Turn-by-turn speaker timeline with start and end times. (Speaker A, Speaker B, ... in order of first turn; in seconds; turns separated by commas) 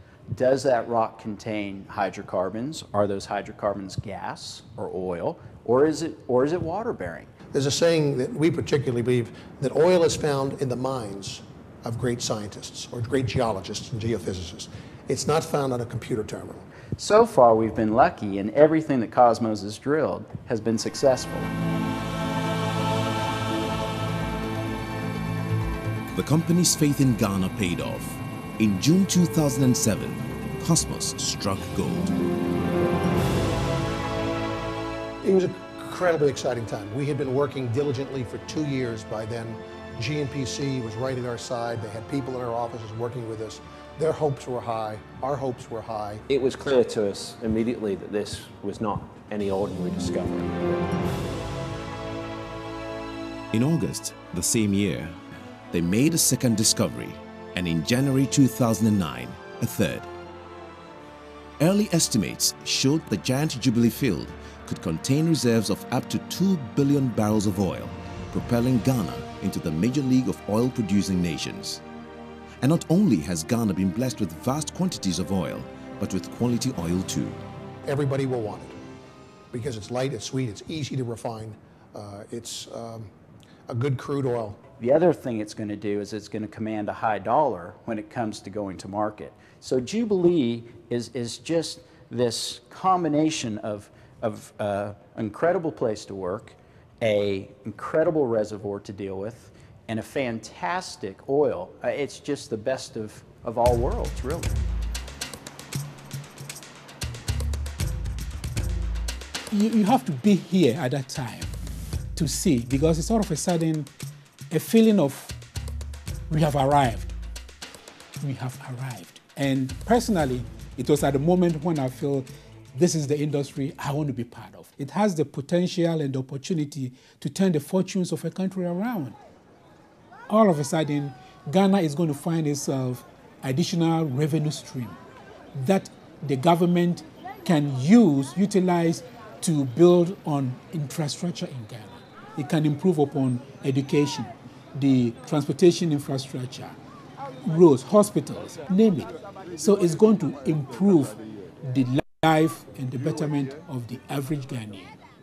Speaker A: 0.3-7.3, Speaker B: 7.5-16.6, Speaker A: 17.0-21.5, Speaker C: 26.1-32.1, Speaker B: 35.2-46.2, Speaker D: 46.3-50.6, Speaker C: 53.5-55.2, Speaker C: 55.7-60.1, Speaker C: 61.6-71.8, Speaker C: 72.6-77.4, Speaker B: 77.8-78.8, Speaker B: 79.5-83.1, Speaker B: 83.7-84.6, Speaker A: 84.8-104.6, Speaker E: 109.5-111.5, Speaker E: 112.1-113.9, Speaker E: 114.5-115.3, Speaker E: 116.3-117.1, Speaker E: 118.2-129.2, Speaker E: 130.3-135.0, Speaker E: 135.5-146.7, Speaker E: 147.4-154.9